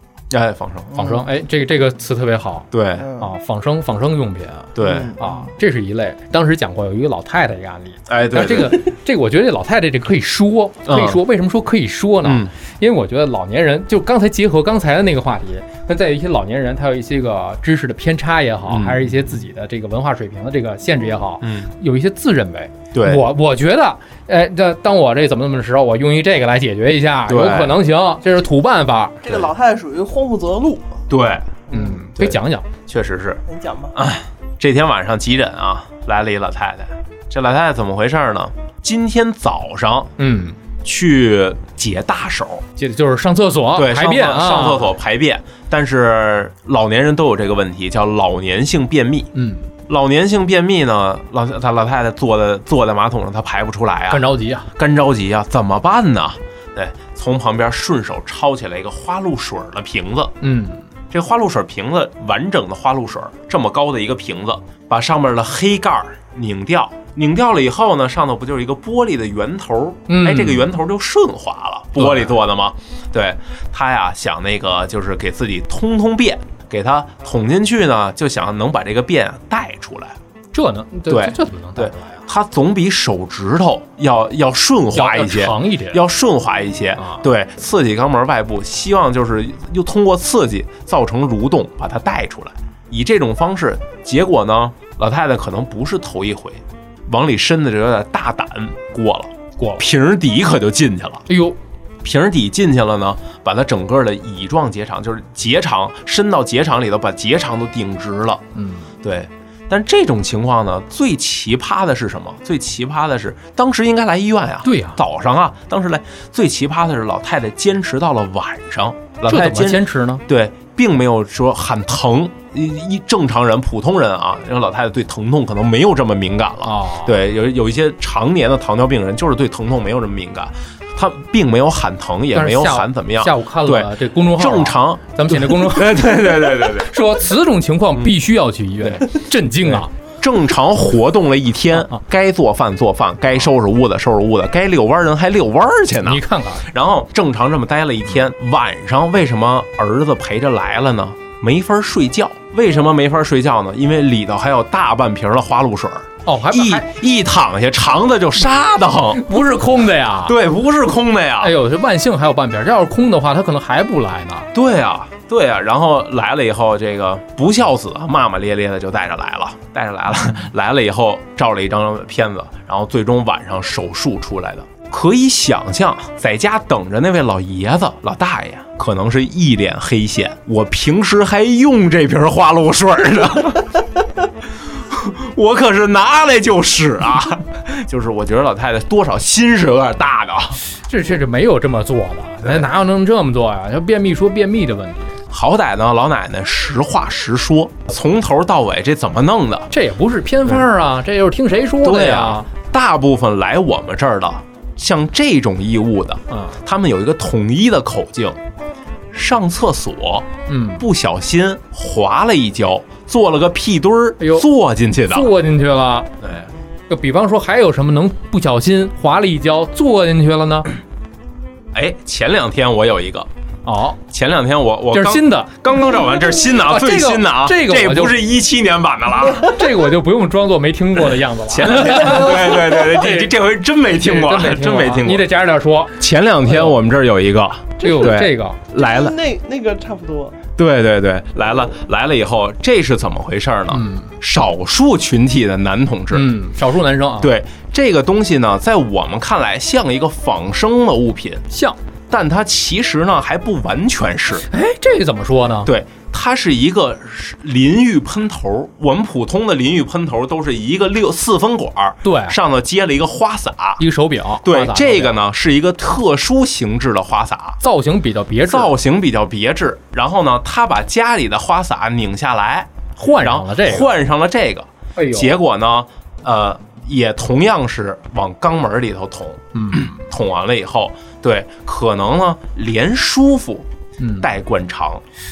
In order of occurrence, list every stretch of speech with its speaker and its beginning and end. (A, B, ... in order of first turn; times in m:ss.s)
0:00.3-0:01.0 A
0:00.9-0:01.2 B
0:00.9-0:29.3 C
0:02.7-0:03.1 A
0:03.0-0:03.3 B
0:04.8-0:05.2 A
0:04.8-0:05.4 B
0:08.1-0:08.9 A
0:10.9-0:11.2 A
0:12.2-0:12.5 A
0:18.7-0:19.2 A
0:21.4-0:21.7 A
0:22.9-0:23.3 A
0:27.3-0:27.8 A
0:29.2-0:30.8 B
0:31.1-0:31.6 A
0:31.7-0:32.0 B
0:31.7-0:32.7 C
0:32.2-0:33.4 A
0:33.5-0:34.0 B
0:34.0-0:40.1 A
0:40.2-0:40.6 C
0:40.8-0:42.6 A
0:42.8-0:44.9 C
0:43.8-0:49.3 A
0:49.3-0:49.7 C
0:49.9-1:00.3 A
0:54.1-0:54.7 C
1:00.4-1:00.8 C
1:01.1-1:20.2 A
1:10.1-1:10.7 C
1:12.0-1:12.4 C
1:20.5-1:22.2 C
1:21.1-1:41.3 A
1:24.9-1:26.0 C
1:27.0-1:27.2 C
1:39.6-1:39.8 C
1:41.3-1:41.6 C
1:42.0-1:48.4 A
1:48.6-1:48.9 C
1:49.0-2:17.0 A
1:54.6-1:55.0 C
1:59.3-2:00.2 C
2:06.6-2:07.2 C
2:12.3-2:19.9 C
2:19.6-2:39.3 A
2:26.0-2:26.7 C
2:36.3-2:36.9 C
2:39.1-2:40.4 C
2:40.3-2:41.6 A
2:41.4-2:44.5 C
2:44.5-3:03.8 A
3:04.7-3:10.6 A
3:10.7-3:15.2 C
3:15.3-3:19.7 A
3:19.7-3:22.5 C
3:21.8-3:28.4 A
3:26.3-3:26.6 C
3:29.1-3:35.3 A
3:30.5-3:30.9 C
3:34.2-3:34.5 C
3:35.1-3:36.1 C
3:36.2-3:36.5 A
3:36.9-3:40.7 C
3:41.7-3:43.3 A
3:43.6-3:44.0 C
3:44.1-3:49.6 A
3:44.9-3:48.2 C
3:49.3-3:53.3 C
3:51.5-3:55.3 A
3:53.9-3:56.8 C
3:56.0-3:59.2 A
3:57.8-3:58.6 C
3:57.9-3:58.2 B
3:58.8-4:00.4 B
4:00.6-4:06.3 A
4:03.7-4:04.1 C
4:06.1-4:07.3 C
4:07.2-4:11.5 A
4:11.5-4:11.8 C
4:12.1-4:14.5 A
4:14.5-4:15.7 C
4:15.6-4:23.8 A
4:22.0-4:22.4 C
4:23.8-4:25.2 C
4:24.4-4:27.6 A
4:27.6-4:28.7 C
4:28.4-4:43.7 A
4:33.0-4:33.9 C
4:35.0-4:35.3 C
4:39.5-4:40.0 C
4:44.0-4:44.3 C
4:44.2-4:45.0 A